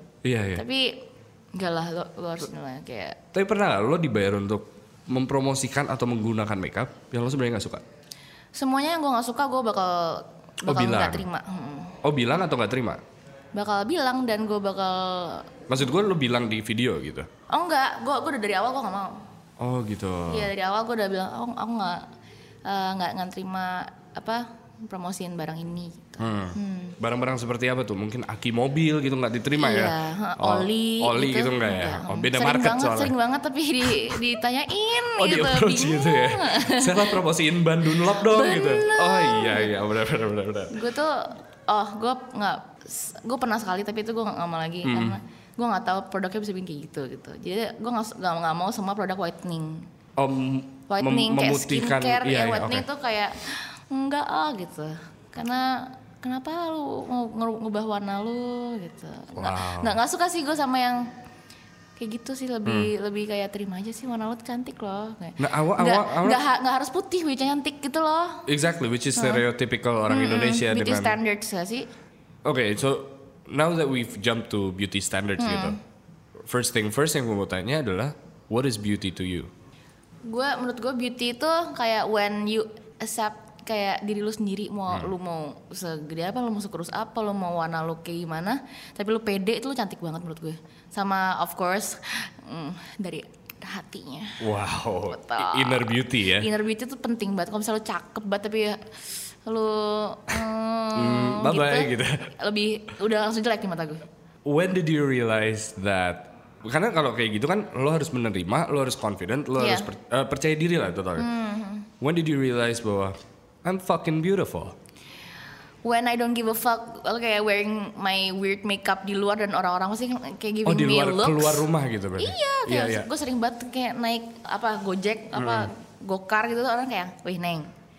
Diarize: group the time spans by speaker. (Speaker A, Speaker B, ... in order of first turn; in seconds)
Speaker A: 0.2-0.6, 3.3-7.8, 10.6-11.2, 12.0-13.0, 15.7-17.3, 19.6-20.5, 26.2-33.1, 35.1-40.8, 44.8-45.2, 50.2-52.9, 59.4-60.0, 62.6-62.9, 65.4-66.4, 68.5-71.2, 72.4-75.8, 76.4-79.5, 94.4-96.5, 100.9-102.3, 104.4-111.3, 112.0-114.8, 120.6-123.1, 125.3-125.7
Speaker B: 0.5-1.0, 1.5-3.2, 8.5-12.0, 13.5-15.5, 17.5-19.2, 20.3-22.1, 22.6-27.0, 29.6-37.2, 38.0-39.7, 40.7-49.9, 50.9-61.1, 62.0-68.4, 69.1-69.4, 70.1-71.9, 75.4-75.8, 80.2-94.4, 95.1-98.9, 99.4-104.0, 109.6-109.9, 111.2-111.9, 115.8-121.7, 122.2-127.7